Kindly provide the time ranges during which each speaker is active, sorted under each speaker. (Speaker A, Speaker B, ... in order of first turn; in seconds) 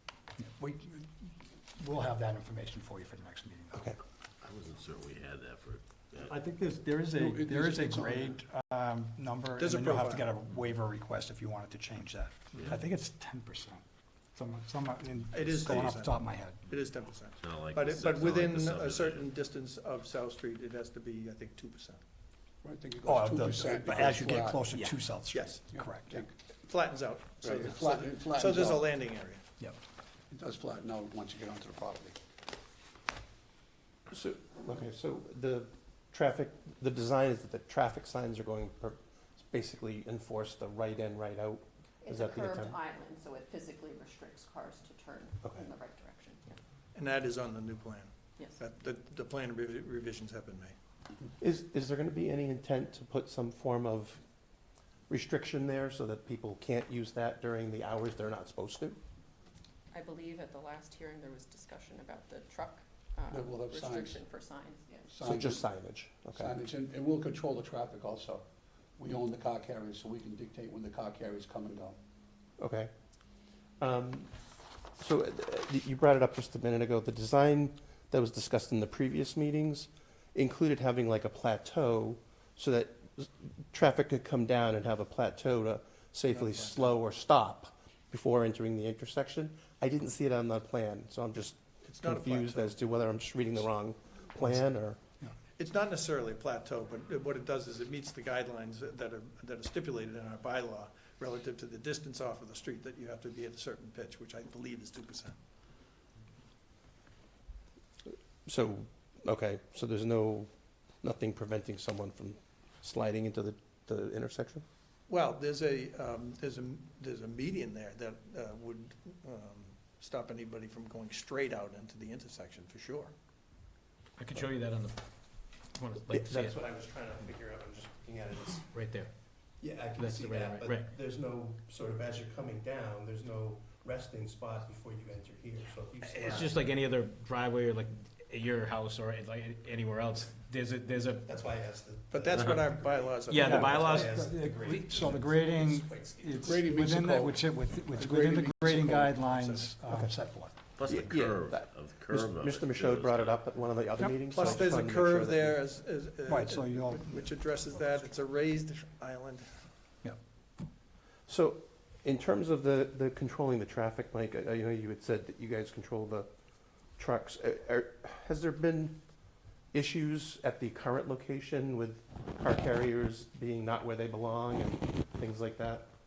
Speaker A: 0.4-3.9, 6.6-13.8, 14.3-16.6, 23.0-26.2, 143.4-150.6, 154.0-154.5, 156.3-157.6
Speaker B: 3.7-4.0, 34.1-42.8, 45.4-45.7, 51.4-54.2, 55.1-59.0, 65.2-66.5, 72.6-72.9, 73.8-74.3, 75.0-95.0, 108.5-110.5, 111.0-114.6, 126.1-128.7, 129.6-136.6, 141.2-146.7, 149.9-150.1, 150.8-155.6, 161.3-166.3, 167.0-169.0, 169.7-175.9
Speaker C: 4.4-6.3, 12.5-12.8, 17.4-19.3, 150.7-153.7
Speaker D: 6.3-6.7, 124.2-126.6, 128.7-129.1, 129.9-130.9, 136.0-141.3, 143.3-145.5
Speaker E: 7.2-8.4, 22.6-24.8, 25.7-26.3, 27.4-28.9, 30.3-32.2, 63.3-64.2, 65.1-65.6, 66.3-68.4, 69.0-72.0, 146.4-149.7
Speaker F: 9.6-10.3, 15.3-16.1, 16.7-22.0, 25.3-25.6, 26.6-29.4, 46.9-50.7, 86.3-86.8, 91.8-92.8, 95.6-105.4, 115.1-123.1, 142.1-144.2, 154.3-159.6
Speaker G: 42.0-46.6, 59.9-65.2